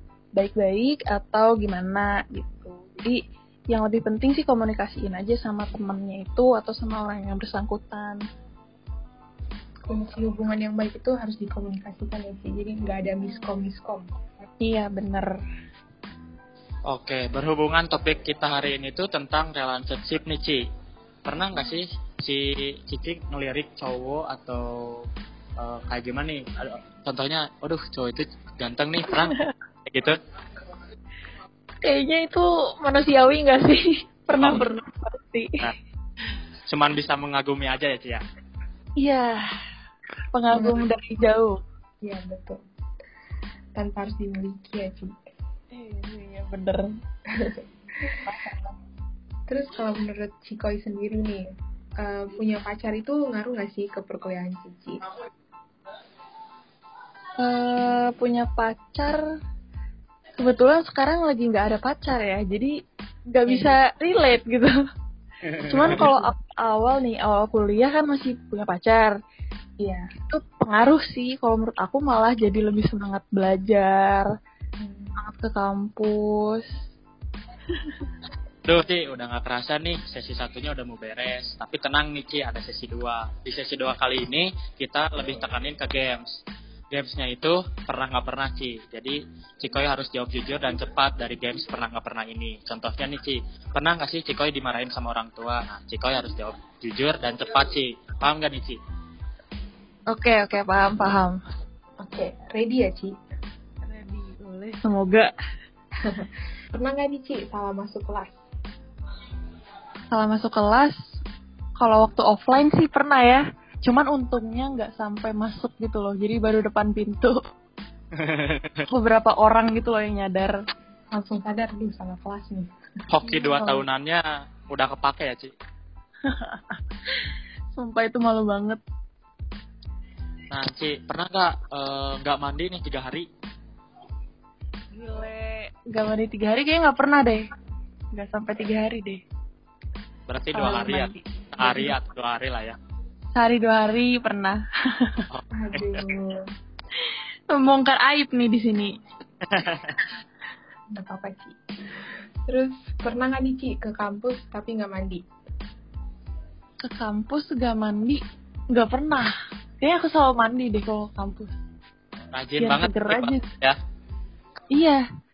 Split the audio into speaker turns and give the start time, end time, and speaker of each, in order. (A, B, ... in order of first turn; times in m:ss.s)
0:00.4-0:08.2 A
0:09.9-0:14.1 B
0:14.6-0:15.3 A
0:16.9-0:20.6 C
0:21.2-0:25.1 C
0:25.6-0:29.4 C
0:29.2-0:29.5 A
0:29.9-0:30.2 C
0:31.8-0:35.5 A
0:36.7-0:38.2 C
0:39.0-0:39.5 A
0:40.3-0:41.6 A
0:40.5-0:40.9 B
0:42.0-0:42.6 B
0:43.8-0:45.2 B
0:45.7-0:46.9 A
0:47.3-0:48.2 B
0:48.2-0:48.8 A
0:49.5-0:51.5 B
0:52.0-0:55.0 B
0:57.4-0:59.2 A
1:00.4-1:02.8 A
1:03.3-1:04.8 A
1:03.5-1:03.8 B
1:05.5-1:06.0 C
1:05.6-1:09.2 A
1:05.9-1:06.3 B
1:09.8-1:10.1 B
1:10.3-1:14.3 A
1:14.8-1:15.2 B
1:15.2-1:16.8 A
1:18.6-1:26.2 C
1:26.9-1:38.8 C
1:40.1-1:41.4 A
1:42.0-1:43.1 B
1:43.9-1:45.3 A
1:46.0-1:48.3 B
1:50.1-1:51.0 A
1:51.8-1:57.4 A
1:58.2-1:58.8 C
1:58.9-2:00.6 A
2:01.1-2:02.7 B
2:03.1-2:05.5 C
2:03.2-2:03.8 B
2:06.2-2:06.8 A
2:07.8-2:08.8 A
2:10.5-2:13.3 C
2:14.9-2:17.5 A
2:18.1-2:19.2 A
2:20.3-2:22.8 C
2:20.5-2:21.9 A
2:23.4-2:25.2 A
2:25.3-2:26.0 C
2:25.5-2:26.4 B
2:27.5-2:29.0 A
2:29.5-2:30.0 C
2:31.0-2:31.6 B
2:32.5-2:35.2 B
2:36.8-2:41.5 A
2:42.3-2:43.8 C
2:42.6-2:43.5 A
2:44.7-2:45.0 A